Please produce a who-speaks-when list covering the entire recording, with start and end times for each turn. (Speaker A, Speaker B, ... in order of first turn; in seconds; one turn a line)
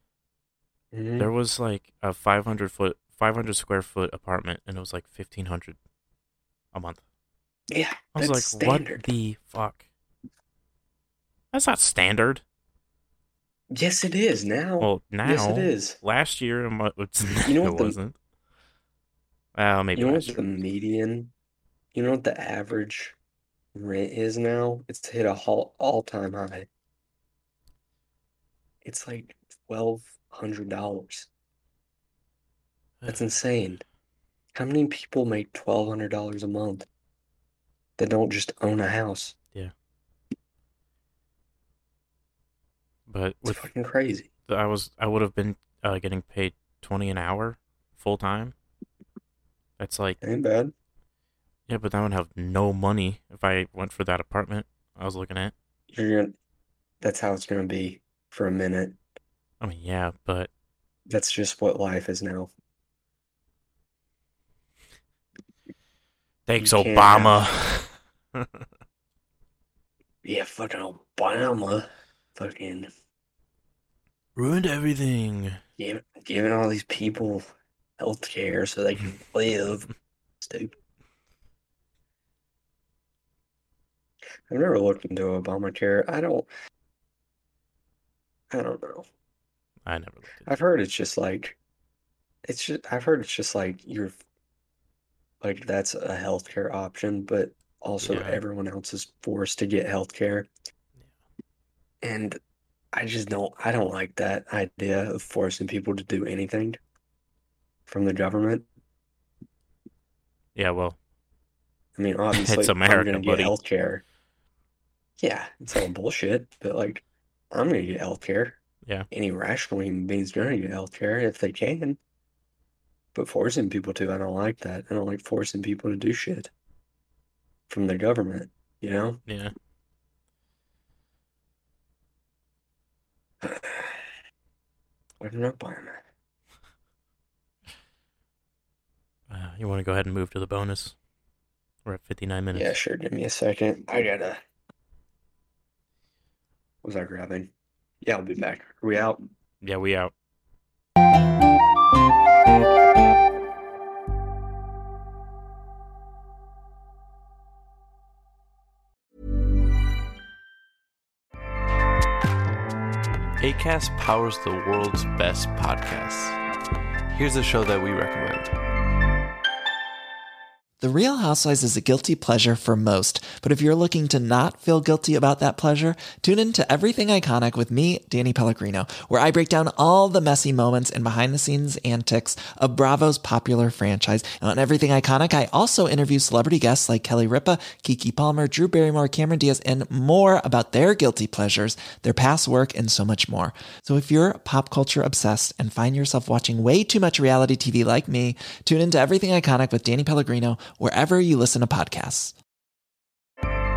Speaker A: 0.9-1.3
Speaker B: 1.2-5.8
Speaker B: 6.7-7.0
Speaker A: 7.7-9.1
Speaker B: 8.1-9.8
Speaker B: 11.5-12.4
Speaker A: 13.7-16.0
Speaker B: 14.8-18.1
Speaker A: 17.4-18.0
Speaker B: 19.5-20.5
Speaker A: 19.9-21.3
Speaker A: 21.9-23.1
Speaker A: 23.7-26.7
Speaker A: 28.8-31.3
Speaker B: 33.0-33.4
Speaker A: 33.1-33.8
Speaker A: 34.5-36.9
Speaker A: 38.0-39.4
Speaker B: 43.1-43.7
Speaker A: 43.5-44.3
Speaker B: 44.5-48.5
Speaker B: 49.8-50.2
Speaker A: 50.2-50.7
Speaker B: 51.7-55.5
Speaker A: 55.9-56.3
Speaker A: 57.0-59.0
Speaker B: 59.6-60.5
Speaker A: 61.1-62.5
Speaker B: 66.5-68.5
Speaker A: 66.6-67.4
Speaker A: 70.2-72.9
Speaker B: 74.3-75.6
Speaker A: 75.8-77.5
Speaker A: 78.0-80.7
Speaker A: 84.5-86.5
Speaker A: 88.5-89.1
Speaker B: 89.8-90.6
Speaker A: 90.5-91.6
Speaker A: 92.4-94.2
Speaker A: 95.4-100.5
Speaker B: 98.0-98.4
Speaker A: 102.0-102.4
Speaker A: 102.9-106.8
Speaker A: 107.9-108.7
Speaker B: 110.5-111.0
Speaker A: 111.9-114.0
Speaker B: 112.3-113.6
Speaker A: 115.2-118.6
Speaker A: 119.1-122.0
Speaker A: 123.1-126.5
Speaker A: 127.7-129.2
Speaker B: 129.2-129.5
Speaker A: 133.4-134.0
Speaker A: 135.2-136.0
Speaker B: 139.3-140.9
Speaker B: 141.8-142.7
Speaker A: 142.5-144.4
Speaker A: 146.8-147.5
Speaker A: 148.0-149.2
Speaker B: 149.6-150.1
Speaker C: 163.4-166.4
Speaker C: 167.1-168.5
Speaker D: 170.8-202.3